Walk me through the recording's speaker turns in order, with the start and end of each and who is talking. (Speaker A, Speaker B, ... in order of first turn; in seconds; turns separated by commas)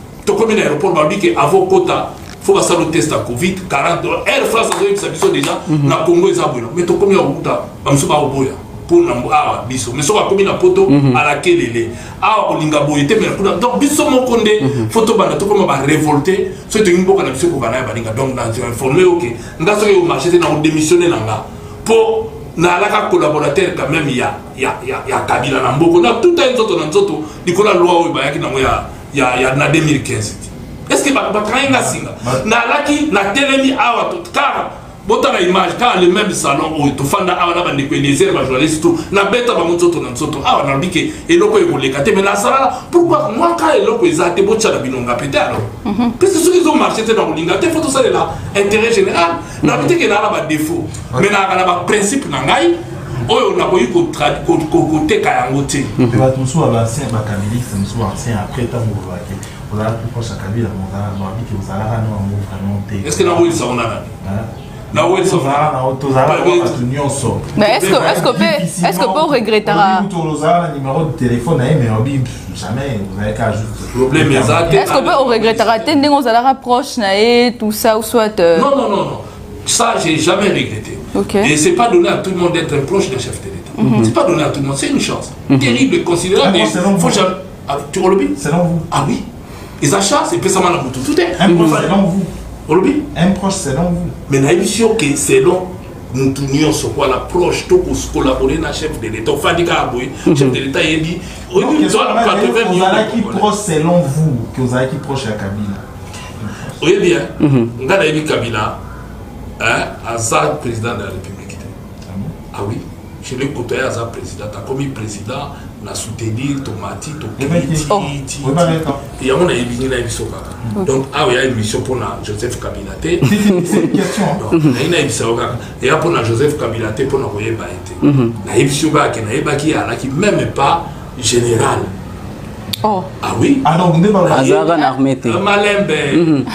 Speaker A: 0.2-55.9, Speaker B: 5.7-6.0, Speaker B: 10.9-11.2, Speaker B: 14.6-14.9, Speaker C: 31.7-32.4, Speaker D: 45.9-46.1, Speaker B: 49.6-49.9, Speaker C: 56.0-63.6, Speaker A: 63.0-64.1, Speaker C: 64.2-74.9, Speaker A: 64.9-65.7, Speaker A: 66.2-66.8, Speaker D: 67.5-70.0, Speaker A: 67.6-68.4, Speaker A: 73.9-76.0, Speaker D: 74.7-78.7, Speaker A: 78.5-88.4, Speaker D: 81.1-81.5, Speaker D: 83.8-84.1, Speaker B: 83.8-84.1, Speaker B: 85.5-85.8, Speaker C: 86.4-87.3, Speaker C: 88.3-88.9, Speaker A: 88.9-89.2, Speaker A: 89.8-91.9, Speaker C: 91.4-92.3, Speaker B: 91.5-91.8, Speaker A: 92.7-93.0, Speaker C: 93.1-94.2, Speaker A: 94.3-103.5, Speaker B: 100.3-100.6, Speaker C: 101.5-105.8, Speaker A: 106.8-108.8, Speaker B: 107.4-107.7, Speaker A: 109.6-111.7, Speaker C: 112.1-112.3, Speaker A: 112.5-131.9, Speaker C: 117.4-119.0, Speaker C: 123.2-124.4, Speaker B: 123.5-123.9, Speaker B: 124.5-124.8, Speaker B: 128.0-128.3, Speaker D: 132.8-133.1, Speaker A: 133.2-133.7, Speaker C: 133.6-134.7, Speaker B: 134.3-135.4, Speaker A: 134.3-134.6, Speaker A: 135.2-136.3, Speaker B: 136.1-136.5